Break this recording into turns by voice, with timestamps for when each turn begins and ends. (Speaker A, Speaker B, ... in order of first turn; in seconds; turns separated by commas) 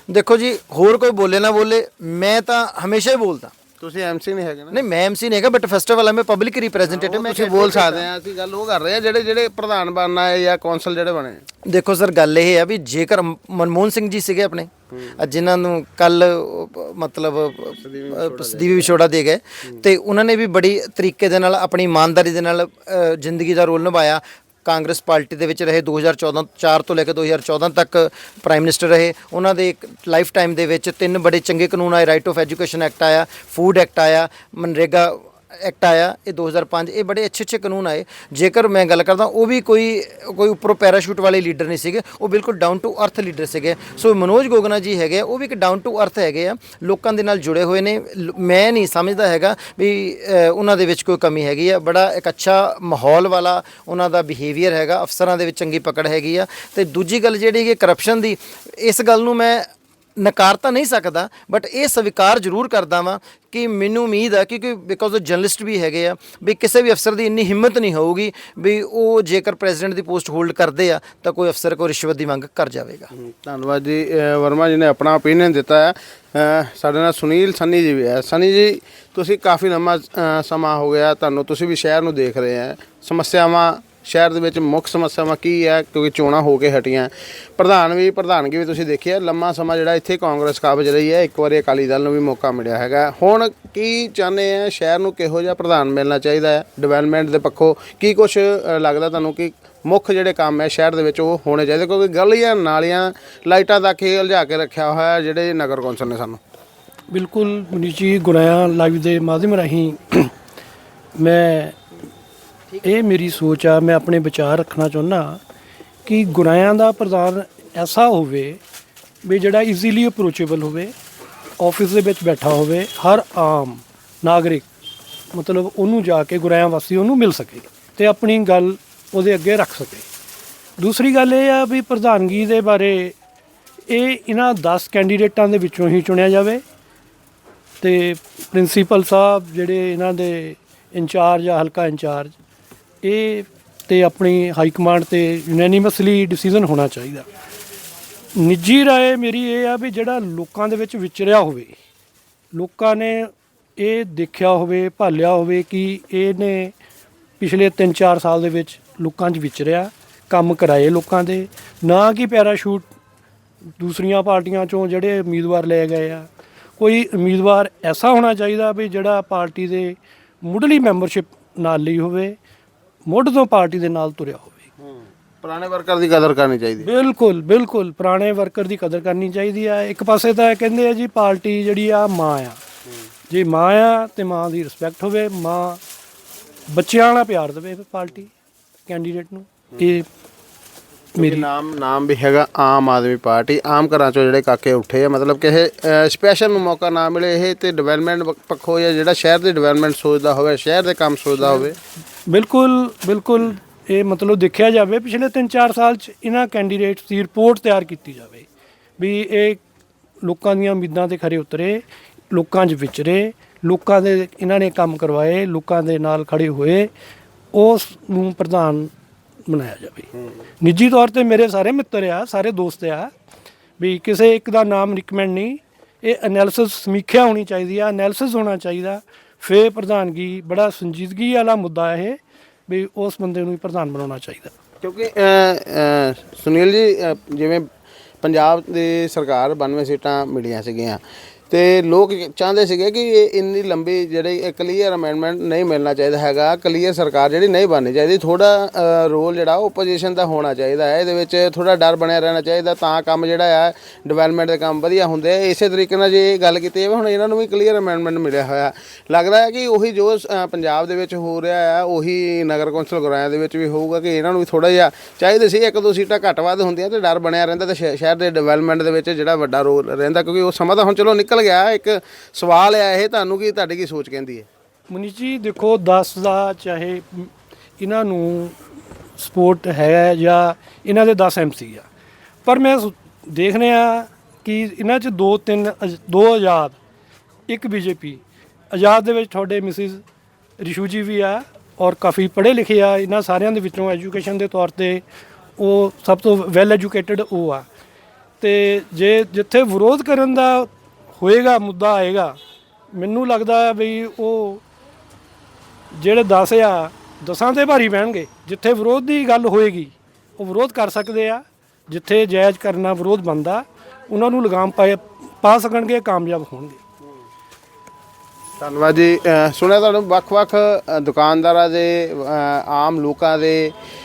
Speaker A: 0.1-3.5, Speaker B: 3.8-4.8, Speaker A: 4.7-8.1, Speaker B: 6.9-11.4, Speaker A: 11.7-73.1, Speaker B: 17.8-18.9, Speaker B: 73.2-106.4, Speaker C: 107.1-110.3, Speaker C: 111.2-111.8, Speaker C: 112.8-115.4, Speaker C: 116.1-118.6, Speaker C: 119.2-120.9, Speaker C: 121.6-124.7, Speaker C: 125.3-130.1, Speaker C: 130.8-133.2, Speaker C: 133.9-136.6, Speaker C: 137.8-142.3, Speaker C: 143.0-147.3, Speaker C: 148.4-151.8, Speaker C: 152.5-156.7, Speaker C: 157.4-162.9, Speaker C: 163.8-172.4, Speaker C: 173.1-174.7, Speaker B: 175.4-176.9, Speaker C: 176.8-182.6, Speaker C: 183.3-185.8, Speaker C: 186.7-188.3, Speaker C: 188.9-190.1, Speaker C: 191.2-191.4, Speaker B: 191.2-201.8, Speaker C: 202.3-208.5, Speaker C: 209.0-209.6, Speaker C: 210.2-216.9, Speaker C: 217.5-218.9, Speaker C: 219.5-223.1, Speaker C: 223.8-234.6, Speaker B: 234.8-237.7, Speaker B: 238.2-274.5, Speaker C: 274.9-278.6, Speaker C: 279.2-281.9, Speaker C: 282.4-286.8, Speaker C: 287.5-290.0, Speaker C: 290.6-295.0, Speaker C: 295.6-297.7, Speaker C: 298.4-302.4, Speaker C: 302.9-304.6, Speaker C: 306.0-316.8, Speaker B: 318.6-323.7